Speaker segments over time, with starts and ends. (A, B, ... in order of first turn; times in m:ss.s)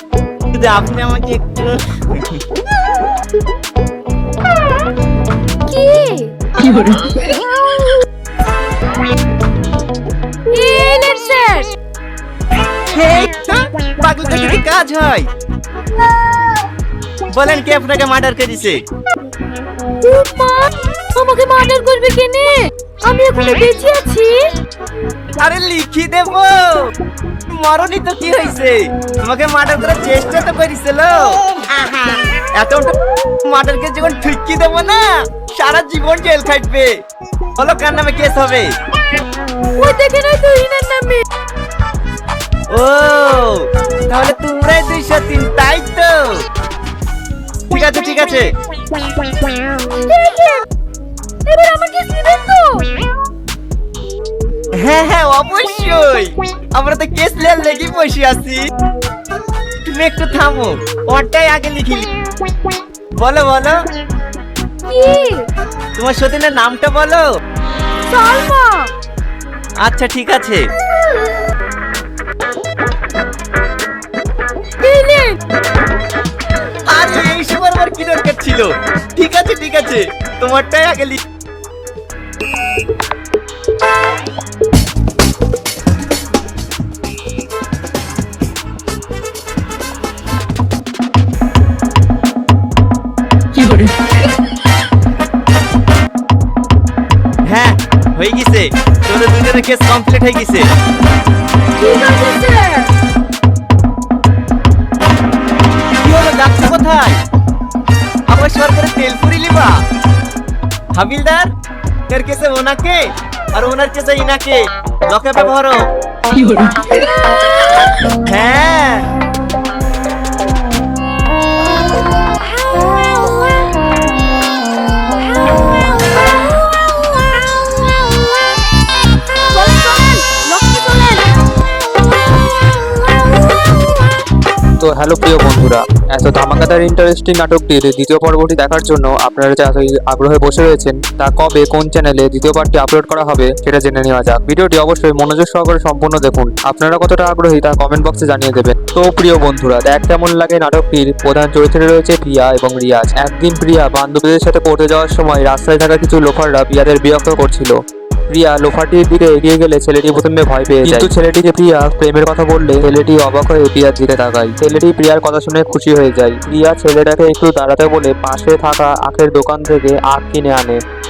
0:00.5-0:02.4 A
0:05.7-0:07.4 B
0:10.5-0:11.7 B
0:12.9-0:15.3 A
0:17.3-0:18.8 A
0:20.0-0:24.5 B
0:25.4-0:26.9 A
0:27.5-0:31.6 A
0:32.4-0:37.0 A
0:37.6-0:38.8 A
0:39.8-0:41.2 B
0:42.7-0:46.5 A
0:47.7-0:48.5 A
0:49.8-0:50.6 B
0:51.4-0:52.9 B
0:54.8-0:58.6 A
0:59.8-1:02.1 A
1:03.2-1:03.8 A
1:04.9-1:05.5 B
1:06.0-1:07.2 A
1:08.1-1:08.9 B
1:09.8-1:10.6 A
1:14.8-1:15.4 B
1:16.8-1:21.2 A
1:37.5-1:40.7 A
1:41.8-1:42.9 B
1:46.0-1:47.2 A
1:48.3-1:49.8 A
1:51.0-1:51.5 A
1:52.1-1:55.9 A
1:58.2-1:59.1 A
2:03.0-2:03.4 B
2:09.5-2:11.3 B
2:14.8-2:37.8 C
2:38.3-2:50.8 C